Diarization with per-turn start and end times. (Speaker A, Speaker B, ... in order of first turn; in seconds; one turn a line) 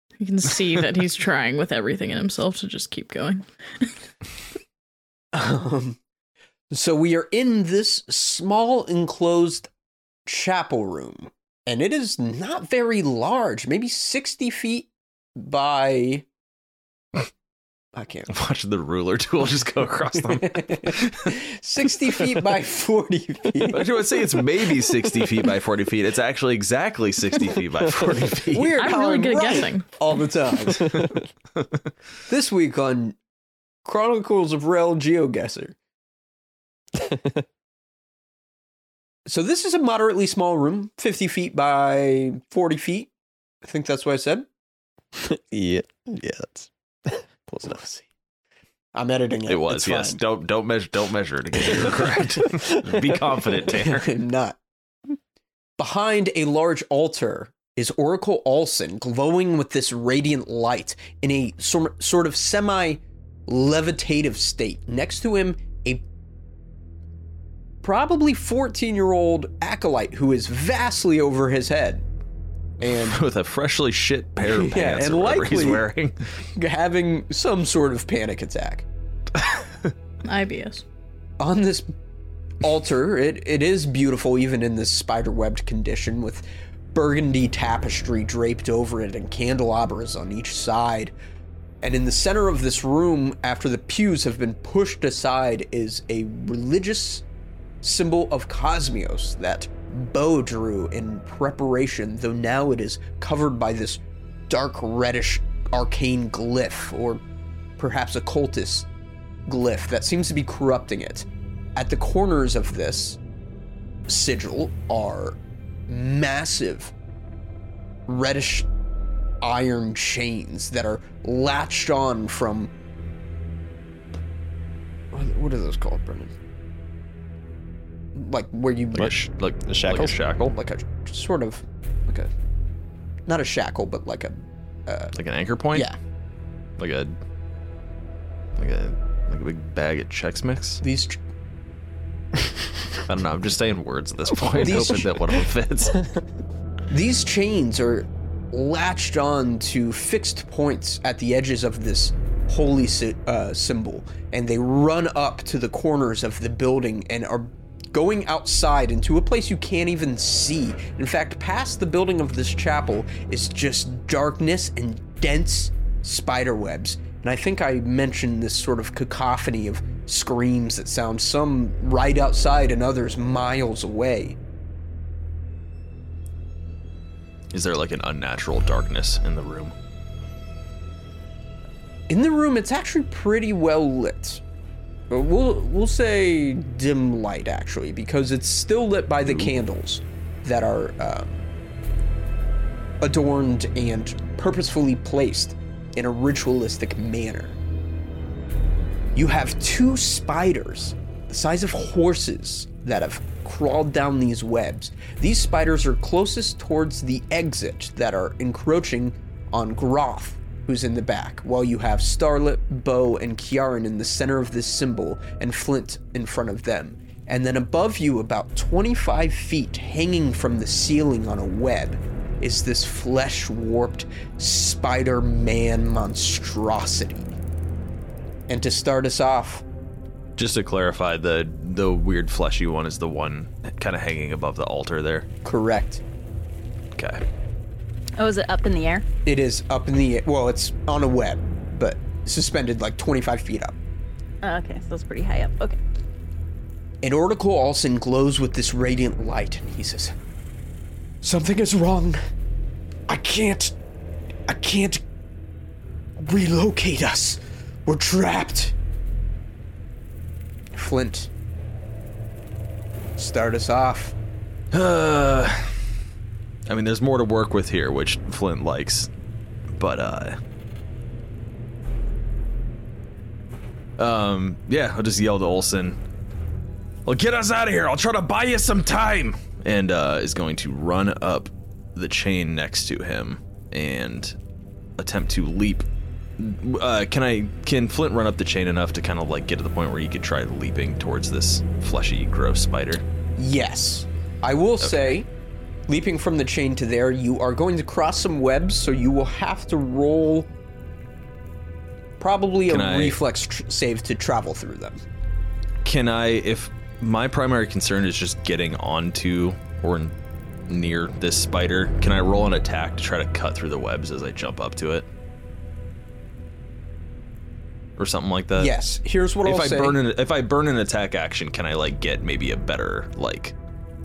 Speaker A: 0.2-3.9
Speaker B: 5.3-6.0
Speaker B: 6.7-9.7
Speaker B: 10.3-16.3
Speaker B: 17.9-18.3
Speaker C: 18.3-21.3
Speaker B: 20.3-24.5
Speaker C: 23.6-28.8
Speaker B: 28.4-31.2
Speaker A: 28.8-29.9
Speaker D: 30.8-31.2
Speaker B: 32.3-33.2
Speaker B: 33.8-35.8
Speaker D: 36.9-37.4
Speaker B: 39.3-43.1
Speaker B: 43.6-44.5
Speaker D: 45.2-48.1
Speaker B: 48.9-50.2
Speaker C: 49.5-54.1
Speaker D: 52.2-53.1
Speaker B: 53.6-54.6
Speaker B: 55.8-66.0
Speaker B: 67.8-72.0
Speaker B: 72.8-73.2
Speaker C: 72.8-76.2
Speaker B: 74.4-75.9
Speaker B: 76.6-78.8
Speaker A: 80.2-80.8
Speaker B: 81.4-81.9
Speaker B: 82.6-91.1
Speaker B: 91.8-97.2
Speaker B: 97.8-107.2
Speaker B: 107.8-108.9
Speaker B: 109.5-113.2
Speaker B: 114.1-115.4
Speaker B: 115.9-116.9
Speaker B: 118.1-118.7
Speaker B: 119.4-122.7
Speaker B: 125.1-126.3
Speaker B: 128.2-129.1
Speaker C: 128.9-130.6
Speaker D: 129.0-130.1
Speaker B: 130.4-132.3
Speaker B: 133.3-135.1
Speaker C: 135.2-135.9
Speaker C: 136.8-137.2
Speaker C: 138.6-140.8
Speaker B: 140.8-141.2
Speaker C: 143.1-146.1
Speaker B: 144.5-145.1
Speaker B: 146.9-174.4
Speaker C: 177.5-179.7
Speaker B: 182.1-184.4
Speaker B: 185.1-191.4
Speaker B: 193.0-197.6
Speaker B: 199.2-227.4
Speaker B: 228.5-229.6
Speaker C: 230.4-235.3
Speaker B: 235.4-236.0
Speaker C: 237.0-237.2
Speaker E: 238.2-239.1
Speaker B: 239.2-243.8
Speaker E: 244.4-245.8
Speaker B: 247.0-250.1
Speaker B: 251.2-252.2
Speaker B: 253.1-253.8
Speaker B: 254.5-255.0
Speaker B: 256.2-258.8
Speaker B: 260.7-261.3
Speaker B: 263.2-264.1
Speaker C: 264.7-265.8
Speaker C: 266.7-269.1
Speaker C: 269.8-270.4
Speaker C: 274.0-276.0
Speaker C: 277.1-284.4
Speaker C: 285.0-285.9
Speaker C: 286.4-293.0
Speaker B: 293.4-295.3
Speaker C: 294.8-295.1
Speaker B: 295.9-300.5
Speaker B: 302.2-305.0
Speaker C: 302.7-303.2
Speaker C: 305.8-310.1
Speaker C: 310.7-315.1
Speaker C: 318.0-318.7
Speaker B: 318.6-320.0
Speaker C: 319.4-323.6